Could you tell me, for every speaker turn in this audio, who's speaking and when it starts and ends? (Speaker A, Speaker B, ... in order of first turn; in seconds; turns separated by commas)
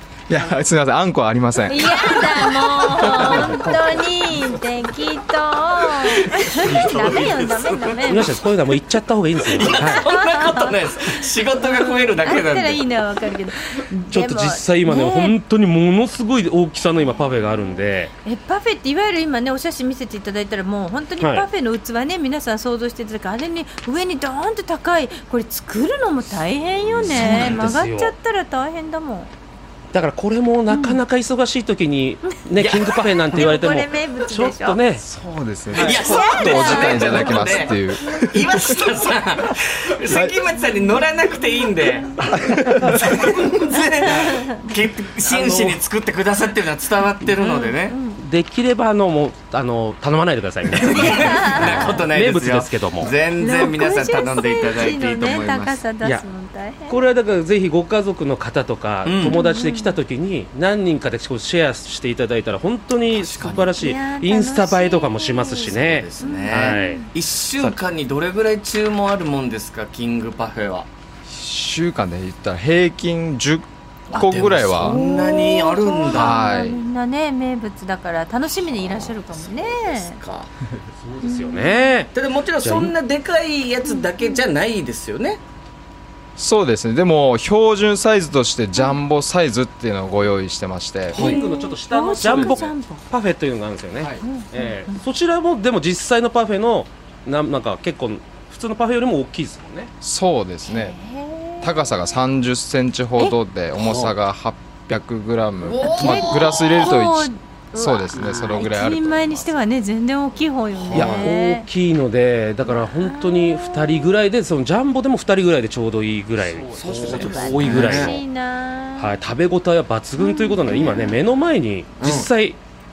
Speaker A: 0.3-2.2, Speaker B: 1.6-8.4, Speaker C: 2.3-3.7, Speaker A: 3.2-3.5, Speaker C: 5.8-8.2, Speaker D: 8.1-10.1, Speaker C: 9.4-12.8, Speaker B: 9.7-15.4, Speaker D: 14.1-18.1, Speaker B: 17.2-17.6, Speaker B: 18.2-29.3, Speaker D: 21.2-21.5, Speaker C: 27.0-27.7, Speaker A: 27.0-27.6, Speaker D: 27.0-28.1, Speaker D: 29.9-35.0, Speaker B: 30.7-31.0, Speaker C: 32.6-33.2, Speaker B: 33.0-34.8, Speaker A: 35.0-38.2, Speaker D: 35.7-36.1, Speaker C: 35.8-48.0, Speaker B: 36.0-38.9, Speaker A: 40.1-40.4, Speaker B: 40.6-42.1, Speaker D: 42.4-43.2, Speaker D: 44.1-44.3, Speaker B: 44.1-44.5, Speaker D: 45.2-45.8, Speaker B: 47.4-48.2, Speaker D: 48.2-53.1, Speaker C: 50.7-55.8, Speaker B: 50.9-52.0, Speaker B: 53.2-57.0, Speaker D: 56.9-67.0, Speaker C: 59.0-59.4, Speaker B: 59.2-60.0, Speaker C: 63.1-63.8, Speaker B: 63.7-67.1, Speaker C: 65.6-70.9, Speaker A: 71.3-75.0, Speaker C: 74.1-76.4, Speaker B: 74.8-80.2, Speaker A: 76.1-76.8, Speaker C: 78.5-80.5, Speaker D: 81.0-82.9, Speaker B: 81.2-82.1, Speaker C: 82.1-85.4, Speaker B: 83.8-84.5, Speaker A: 86.4-91.3, Speaker C: 91.1-91.4, Speaker D: 91.1-99.9, Speaker B: 91.2-93.0, Speaker A: 92.2-92.7, Speaker A: 94.0-94.2, Speaker B: 94.2-95.0, Speaker A: 100.0-101.0, Speaker B: 100.7-101.9, Speaker A: 101.6-109.6, Speaker C: 103.8-104.1, Speaker C: 105.6-107.0, Speaker B: 105.8-111.7, Speaker C: 108.2-108.6, Speaker C: 110.7-111.3, Speaker D: 110.9-118.2, Speaker B: 112.6-114.1, Speaker A: 116.5-117.2, Speaker C: 116.7-118.2, Speaker B: 116.8-119.2, Speaker D: 119.0-122.6, Speaker B: 120.2-121.2, Speaker C: 120.7-121.1, Speaker C: 122.0-122.3